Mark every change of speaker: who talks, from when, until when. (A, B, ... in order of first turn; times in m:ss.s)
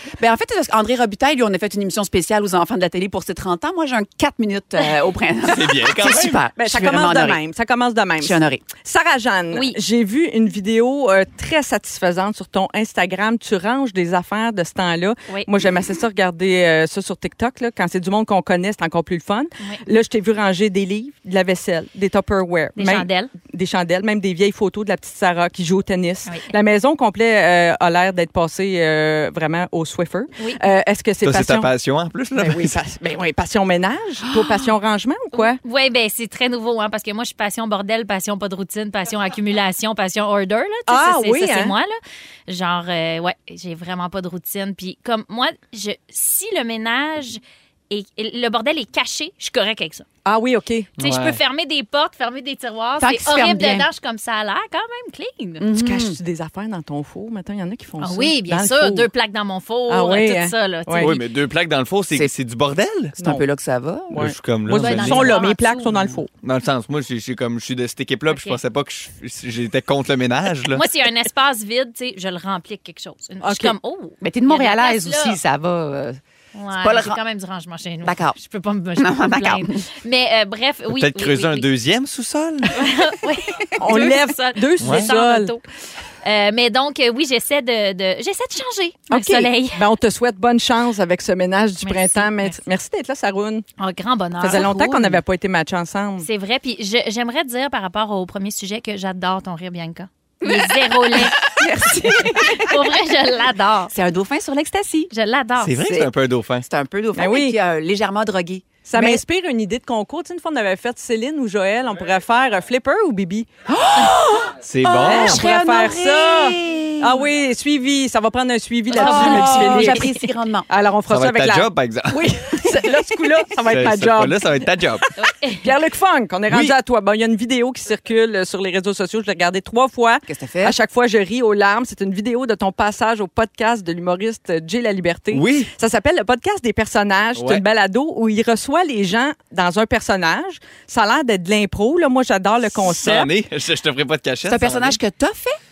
0:00.2-0:07.4 A
0:05.5-0:06.4 B
0:06.6-0:31.7 C
0:08.2-0:08.6 A
0:09.5-0:09.8 D
0:22.8-0:23.3 D
0:26.3-0:26.5 D
0:31.2-0:32.8 B
0:32.4-0:35.6 C
0:35.3-0:41.9 D
0:40.9-0:41.7 C
0:42.5-0:50.0 D
0:50.2-0:50.9 C
0:51.0-0:51.4 B
0:51.0-0:55.6 D
0:53.0-0:53.9 A
0:55.6-0:56.2 A
0:55.7-0:59.1 C
0:58.0-1:01.2 D
0:59.9-1:01.1 C
1:01.0-1:03.2 B
1:03.2-1:03.4 C
1:03.2-1:04.3 A
1:04.1-1:06.3 C
1:04.1-1:05.4 B
1:04.7-1:05.9 D
1:05.9-1:06.2 A
1:06.4-1:10.8 B
1:08.3-1:08.6 D
1:10.7-1:15.4 D
1:13.4-1:13.7 C
1:14.2-1:16.2 A
1:16.6-1:21.7 D
1:16.7-1:17.2 A
1:18.0-1:18.4 A
1:19.0-1:19.8 A
1:20.9-1:22.8 B
1:22.8-1:25.6 D
1:23.8-1:25.5 C
1:24.8-1:25.1 B
1:26.2-1:29.8 D
1:29.1-1:33.6 C
1:31.8-1:32.6 D
1:33.8-1:35.2 D
1:34.4-1:36.3 C
1:36.2-1:41.5 D
1:40.4-1:43.0 A
1:42.2-1:43.9 D
1:43.9-1:45.1 A
1:45.1-1:45.8 D
1:45.6-1:46.6 B
1:45.8-1:46.1 A
1:46.6-1:49.2 A
1:47.2-1:47.6 C
1:48.8-1:53.5 C
1:53.7-1:57.2 A
1:54.6-1:55.4 B
1:55.0-2:00.1 C
1:58.9-2:00.7 A
1:58.9-2:00.3 D
2:00.7-2:23.3 C
2:01.1-2:02.7 B
2:03.6-2:05.0 B
2:05.2-2:05.7 D
2:06.5-2:06.7 B
2:10.2-2:10.8 A
2:15.3-2:15.7 B
2:17.3-2:17.6 B
2:22.7-2:25.0 B
2:24.4-2:25.6 A